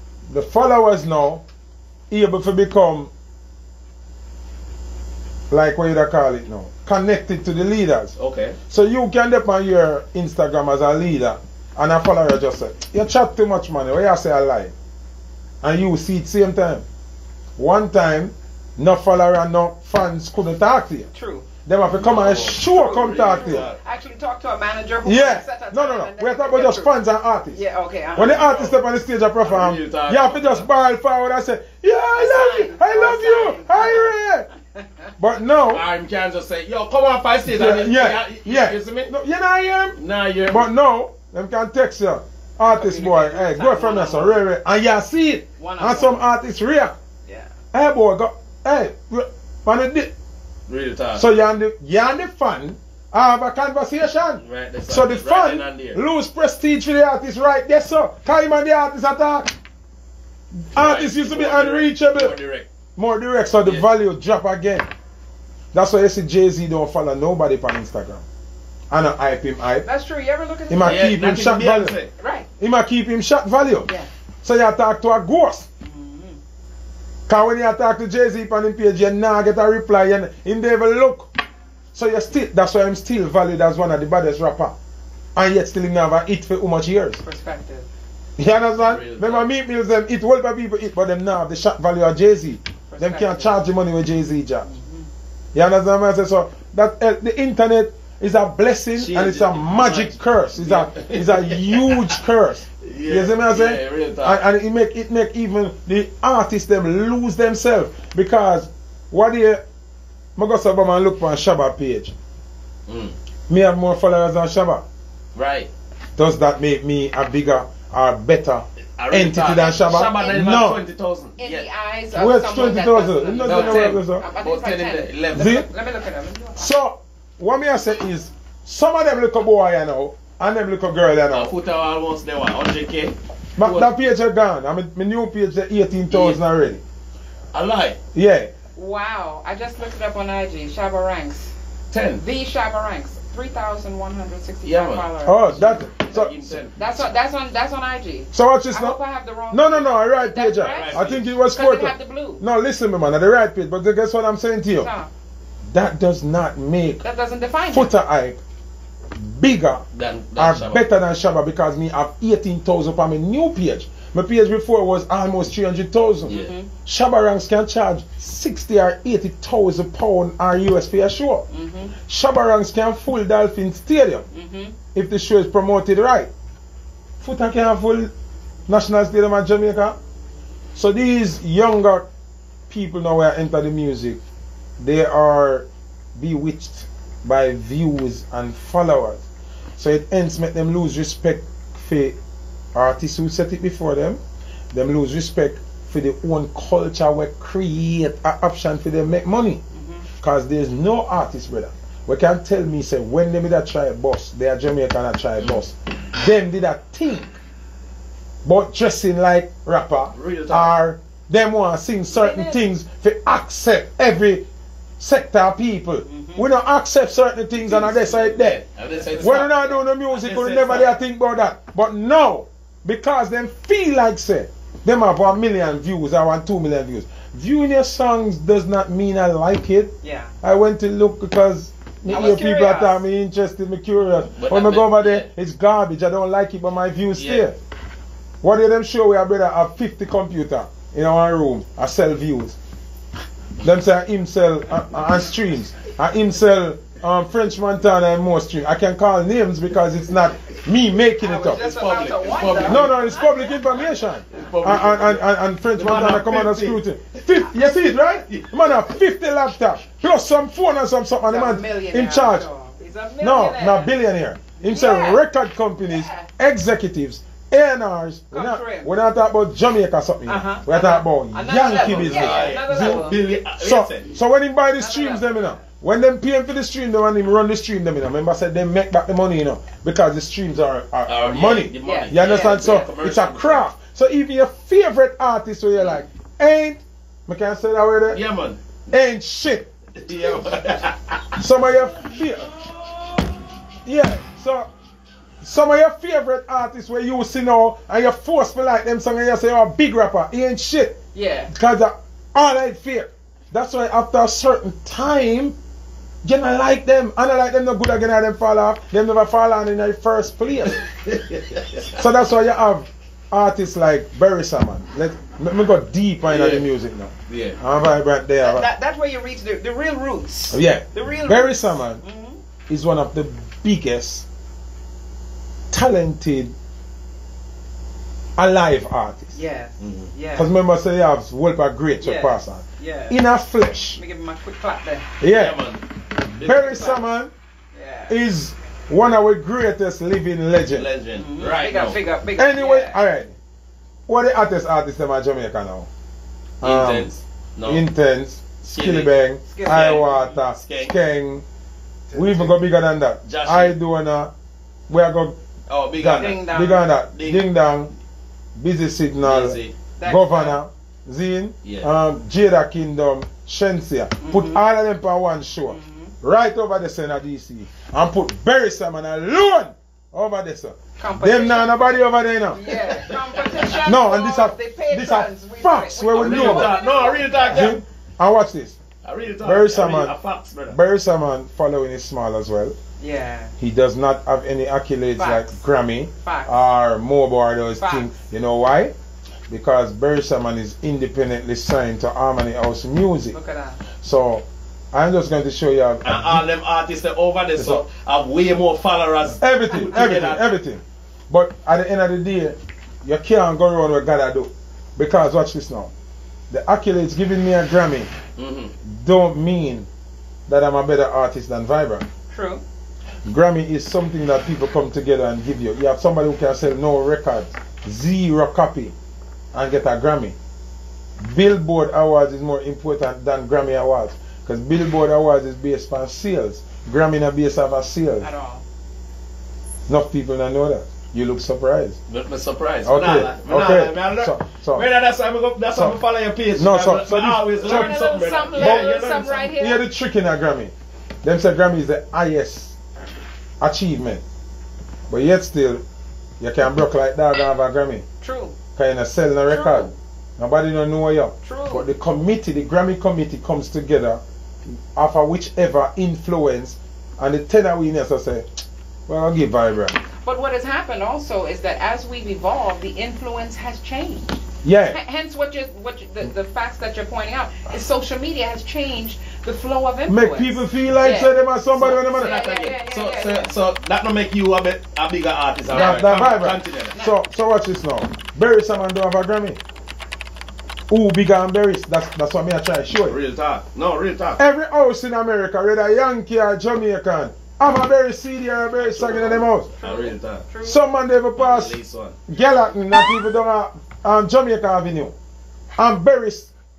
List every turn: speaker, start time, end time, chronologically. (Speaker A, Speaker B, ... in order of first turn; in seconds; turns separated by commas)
Speaker A: 0.3-1.4, Speaker A: 2.1-3.1, Speaker A: 5.5-8.2, Speaker B: 8.2-8.6, Speaker A: 8.7-14.7, Speaker A: 15.6-16.9, Speaker A: 17.6-21.1, Speaker C: 21.1-21.5, Speaker A: 21.6-23.7, Speaker B: 21.9-23.8, Speaker C: 22.7-26.9, Speaker A: 25.0-27.6, Speaker C: 27.5-28.7, Speaker A: 28.1-34.5, Speaker B: 29.4-30.7, Speaker C: 32.1-34.1, Speaker C: 34.8-35.1, Speaker A: 35.2-35.9, Speaker B: 35.7-39.1, Speaker A: 37.5-47.0, Speaker B: 40.0-40.7, Speaker C: 42.6-44.4, Speaker C: 45.6-46.2, Speaker C: 47.2-47.5, Speaker A: 47.7-50.1, Speaker B: 50.7-51.3, Speaker A: 51.1-59.5, Speaker B: 54.4-56.0, Speaker A: 60.7-62.4, Speaker B: 60.8-62.7, Speaker A: 63.0-64.9, Speaker B: 63.6-63.9, Speaker A: 65.7-68.2, Speaker A: 68.9-69.9, Speaker C: 69.8-71.1, Speaker A: 70.7-72.0, Speaker B: 70.8-72.1, Speaker C: 72.2-72.5, Speaker A: 72.6-73.9, Speaker A: 74.4-75.7, Speaker C: 75.8-76.4, Speaker A: 77.3-81.3, Speaker A: 81.9-84.8, Speaker A: 85.3-87.2, Speaker C: 87.2-87.9, Speaker A: 88.4-94.7, Speaker B: 88.8-89.5, Speaker C: 92.9-93.6, Speaker C: 94.6-95.1, Speaker A: 95.5-109.6, Speaker B: 99.0-102.2, Speaker B: 102.8-104.4, Speaker A: 110.4-112.1, Speaker B: 112.9-113.2, Speaker A: 113.5-114.8, Speaker B: 115.3-115.7, Speaker A: 116.2-120.8, Speaker B: 119.0-121.7, Speaker C: 120.1-120.4, Speaker C: 121.4-126.7, Speaker A: 122.1-124.2, Speaker B: 123.4-125.5, Speaker A: 125.3-125.7, Speaker A: 126.6-131.5, Speaker B: 131.3-133.9, Speaker A: 133.6-136.8, Speaker B: 136.1-136.4, Speaker B: 137.5-138.0, Speaker A: 138.1-138.5, Speaker C: 138.8-141.5, Speaker B: 141.9-142.2, Speaker C: 142.1-145.5, Speaker B: 144.7-146.9, Speaker A: 145.2-146.6, Speaker C: 146.8-152.4, Speaker A: 148.3-149.0, Speaker A: 149.5-154.9, Speaker B: 150.7-151.3, Speaker C: 154.8-155.1, Speaker A: 155.7-157.0, Speaker C: 157.0-157.9, Speaker A: 157.7-158.4, Speaker A: 159.1-159.8, Speaker B: 159.9-160.8, Speaker A: 160.3-166.3, Speaker C: 166.3-166.7, Speaker B: 166.3-166.6, Speaker A: 166.9-171.4, Speaker C: 171.5-171.9, Speaker A: 172.1-174.3, Speaker C: 174.3-174.8, Speaker A: 174.9-176.3, Speaker A: 177.2-178.1, Speaker A: 178.7-180.0, Speaker A: 180.8-182.1, Speaker A: 182.7-184.2, Speaker A: 184.8-189.2, Speaker A: 189.8-192.2, Speaker A: 192.7-194.2, Speaker A: 194.7-199.6, Speaker C: 199.7-200.0, Speaker A: 200.2-207.4, Speaker A: 208.4-214.4, Speaker B: 210.1-210.7, Speaker C: 212.1-212.6, Speaker A: 215.0-218.6, Speaker C: 216.0-216.5, Speaker B: 217.5-219.5, Speaker A: 219.2-237.6, Speaker C: 219.2-219.8, Speaker B: 220.1-221.0, Speaker C: 230.0-230.3, Speaker C: 232.1-233.0, Speaker B: 234.4-235.3, Speaker B: 237.2-237.5, Speaker A: 238.4-242.6, Speaker A: 243.6-251.6, Speaker C: 251.2-253.9, Speaker B: 251.6-253.0, Speaker A: 252.6-262.5, Speaker B: 254.3-257.2, Speaker B: 258.3-258.9, Speaker C: 261.3-263.9, Speaker A: 263.2-288.2, Speaker C: 264.6-265.2, Speaker C: 265.9-266.3, Speaker C: 268.3-268.9, Speaker C: 270.3-273.2, Speaker B: 271.6-274.1, Speaker C: 274.8-275.6, Speaker B: 281.1-283.6, Speaker C: 281.8-282.8, Speaker B: 288.1-288.8, Speaker A: 288.9-289.7, Speaker B: 290.0-291.4, Speaker A: 291.4-292.5, Speaker B: 292.6-293.2, Speaker A: 293.9-294.7, Speaker A: 295.4-301.0, Speaker C: 301.1-301.5, Speaker A: 301.5-305.6, Speaker A: 306.2-310.8, Speaker B: 310.7-312.0, Speaker A: 311.9-318.7, Speaker B: 316.2-316.7, Speaker B: 317.3-317.6, Speaker C: 318.4-322.4, Speaker A: 320.5-322.0, Speaker A: 322.7-324.3, Speaker A: 325.7-326.5, Speaker A: 328.4-329.4, Speaker C: 329.4-330.5, Speaker B: 329.8-330.1, Speaker A: 330.4-334.0, Speaker C: 332.0-333.2, Speaker C: 333.9-335.1, Speaker A: 335.2-335.6, Speaker B: 335.2-336.9, Speaker A: 336.4-337.3, Speaker C: 336.6-337.0, Speaker C: 337.7-338.2, Speaker A: 338.1-340.9, Speaker B: 340.7-342.0, Speaker C: 341.1-343.0, Speaker A: 342.4-343.4, Speaker A: 344.1-345.9, Speaker A: 346.6-347.1, Speaker B: 346.6-347.8, Speaker A: 347.6-351.4, Speaker B: 348.7-351.0, Speaker C: 349.5-350.1, Speaker B: 352.1-352.6, Speaker A: 352.1-354.3, Speaker B: 353.2-353.8, Speaker A: 354.9-355.4, Speaker B: 355.7-356.6, Speaker A: 356.0-357.9, Speaker C: 356.1-356.8, Speaker B: 357.1-357.5, Speaker A: 358.6-372.8, Speaker B: 359.2-359.7, Speaker C: 360.0-360.6, Speaker B: 361.6-361.9, Speaker C: 364.2-364.6, Speaker C: 365.7-366.1, Speaker C: 371.0-377.7, Speaker B: 372.9-373.6, Speaker A: 373.8-376.8, Speaker B: 376.1-377.8, Speaker A: 377.5-378.8, Speaker B: 379.0-380.8, Speaker A: 379.4-380.2, Speaker A: 380.7-382.8, Speaker C: 383.0-383.5, Speaker A: 383.6-388.9, Speaker C: 385.2-385.6, Speaker C: 386.2-386.6, Speaker C: 387.8-388.2, Speaker A: 389.5-393.4, Speaker C: 393.3-393.8, Speaker A: 394.0-396.5, Speaker B: 396.0-400.5, Speaker A: 397.6-397.8, Speaker A: 399.2-405.9, Speaker A: 406.5-408.1, Speaker B: 408.4-408.7, Speaker A: 408.9-409.9, Speaker A: 410.5-412.1, Speaker C: 412.3-412.6, Speaker A: 413.3-418.9, Speaker A: 419.5-420.4, Speaker A: 421.2-428.3, Speaker C: 428.2-428.6, Speaker A: 429.9-432.0, Speaker B: 432.1-439.5, Speaker A: 432.8-434.9, Speaker A: 436.6-438.9, Speaker C: 437.6-439.8, Speaker A: 439.5-440.7, Speaker A: 441.2-442.8, Speaker A: 443.6-444.2, Speaker A: 445.1-445.8, Speaker A: 446.4-448.1, Speaker C: 448.2-448.5, Speaker A: 448.8-454.2, Speaker C: 449.5-449.9, Speaker C: 451.4-451.9, Speaker A: 454.9-458.5, Speaker A: 459.1-460.0, Speaker C: 460.2-473.5, Speaker A: 464.6-465.0, Speaker A: 470.1-472.4, Speaker B: 471.7-476.9, Speaker A: 475.7-479.6, Speaker C: 475.7-476.4, Speaker A: 480.9-483.2, Speaker B: 483.1-484.4, Speaker A: 484.4-489.7, Speaker B: 488.8-490.4, Speaker C: 489.8-490.8, Speaker A: 490.6-491.8, Speaker B: 491.4-492.2, Speaker A: 492.3-495.1, Speaker A: 495.8-496.5